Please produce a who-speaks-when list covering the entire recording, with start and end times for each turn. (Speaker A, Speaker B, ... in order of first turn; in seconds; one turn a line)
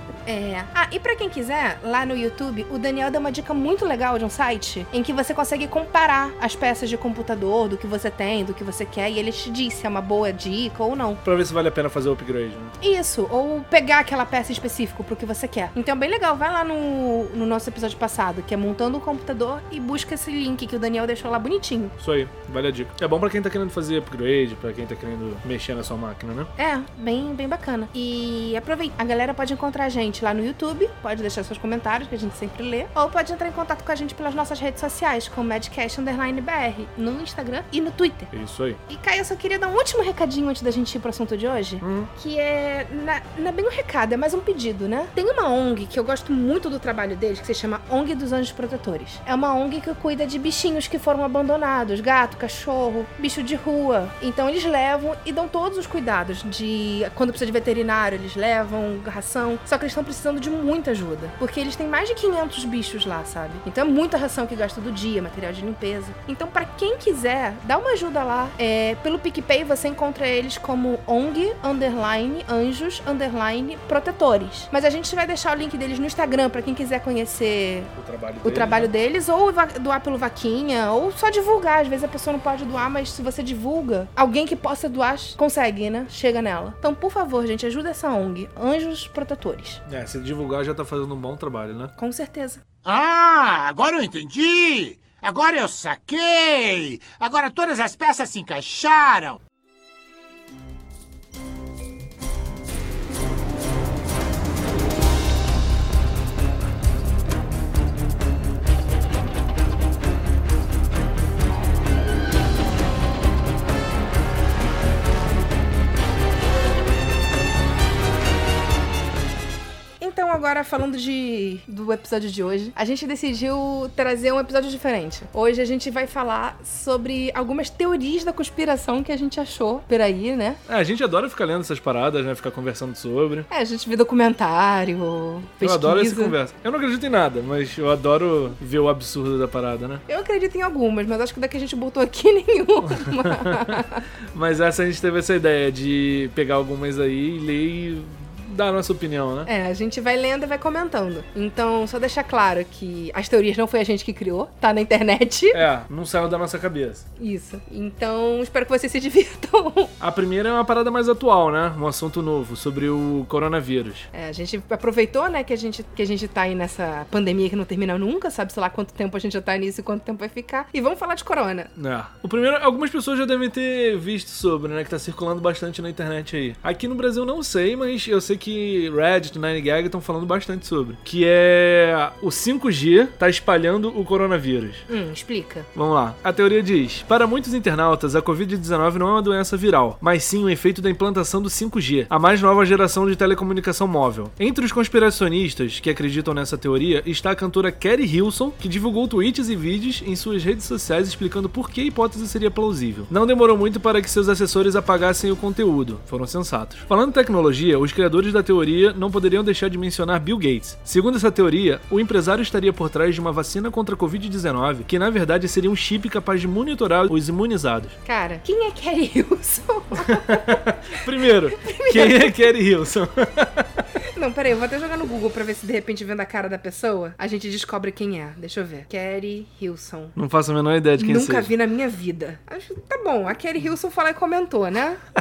Speaker A: 0.3-11.2
Speaker B: 11.2-12.8
Speaker A: 12.8-21.9
Speaker B: 22.0-26.5
Speaker A: 26.6-38.3
Speaker B: 38.3-38.8
Speaker A: 38.9-89.8
Speaker B: 41.8-42.1
Speaker B: 78.0-78.9
Speaker B: 89.9-91.9
Speaker A: 92.0-92.6
Speaker C: 92.8-99.4
Speaker A: 120.0-130.6
Speaker B: 130.7-133.5
Speaker A: 133.5-136.4
Speaker B: 135.6-140.0
Speaker A: 140.1-144.1
Speaker B: 142.9-149.5
Speaker A: 149.5-155.6
Speaker B: 155.5-157.1
Speaker A: 157.2-159.9
Speaker B: 160.0-164.1
Speaker A: 164.1-171.7
Speaker B: 171.8-184.8
Speaker A: 184.9-185.7
Speaker B: 185.8-218.0
Speaker A: 218.1-222.4
Speaker B: 219.9-223.8
Speaker A: 224.1-230.2
Speaker B: 230.2-231.5
Speaker A: 231.0-235.0